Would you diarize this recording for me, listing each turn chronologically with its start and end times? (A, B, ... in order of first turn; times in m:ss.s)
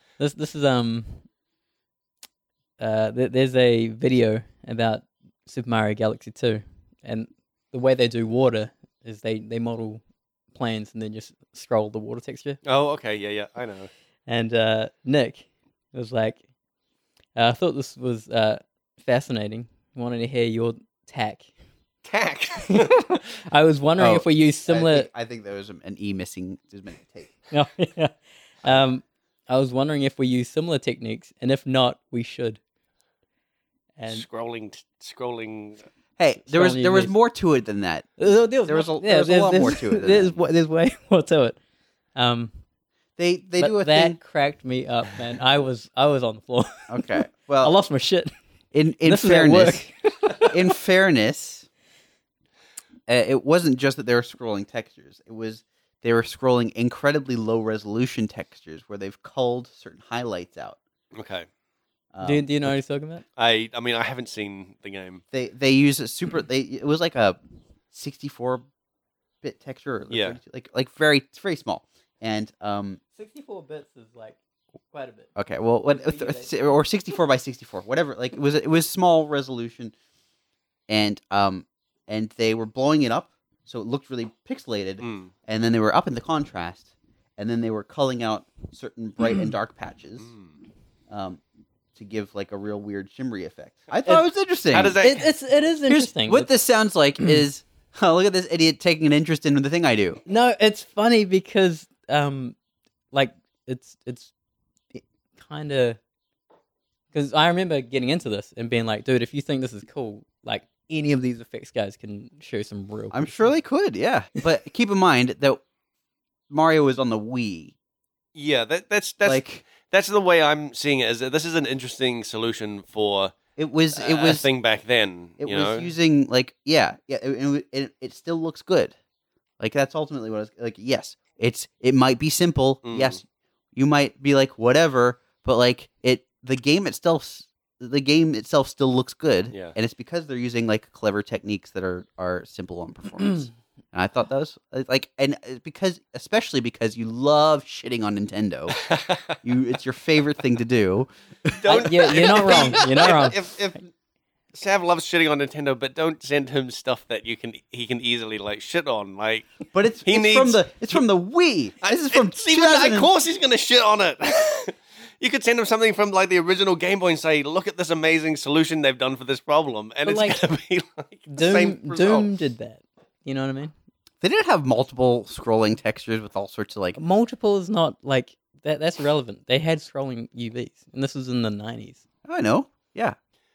0:00.2-0:01.2 A
0:02.8-0:10.0 A
0:10.5-0:12.6 A
0:12.6-0:13.9 B
0:14.3-0:16.4 A
0:17.4-0:21.5 A
0:22.0-0:23.2 B
0:22.7-0:25.1 A
0:24.0-0:27.4 C
0:27.5-0:32.6 A
0:34.0-0:34.2 A
0:34.1-0:35.8 B
0:36.2-0:38.1 C
0:36.5-0:37.2 A
0:38.2-0:41.6 A
0:38.6-0:40.4 C
0:42.2-0:42.5 A
0:43.2-0:44.2 C
0:43.6-0:48.3 A
0:46.9-0:47.8 C
0:48.7-0:51.7 C
0:49.0-0:50.6 A
0:53.1-1:00.8 C
1:01.1-1:01.5 B
1:02.1-1:02.8 C
1:02.2-1:03.2 A
1:03.4-1:05.2 B
1:05.3-1:07.4 C
1:07.9-1:08.6 C
1:09.4-1:13.0 C
1:10.1-1:10.4 B
1:13.2-1:14.4 A
1:14.9-1:15.3 A
1:15.4-1:19.9 C
1:15.8-1:16.5 A
1:20.9-1:30.3 C
1:25.0-1:25.3 B
1:30.2-1:30.5 B
1:31.1-1:31.4 C
1:32.0-1:35.0 C
1:34.0-1:35.3 B
1:35.0-1:36.5 A
1:35.9-1:40.2 C
1:40.3-1:42.6 A
1:43.1-1:44.3 A
1:44.9-1:46.0 A
1:47.1-1:53.4 A
1:53.1-1:55.6 C
1:56.5-1:57.8 C
1:58.4-2:03.3 B
1:59.2-1:59.6 C
2:03.6-2:04.5 C
2:03.9-2:05.9 B
2:05.4-2:09.0 C
2:09.6-2:13.2 C
2:12.8-2:13.2 B
2:13.8-2:31.6 C
2:28.8-2:29.4 B
2:31.5-2:33.9 B
2:31.7-2:33.4 A
2:32.2-2:32.8 C
2:34.5-2:41.0 B
2:39.7-2:43.1 C
2:41.8-2:52.3 B
2:50.1-2:50.4 A
2:51.3-2:53.7 A
2:54.2-2:57.0 C
2:57.0-3:02.0 A
3:02.2-3:03.2 C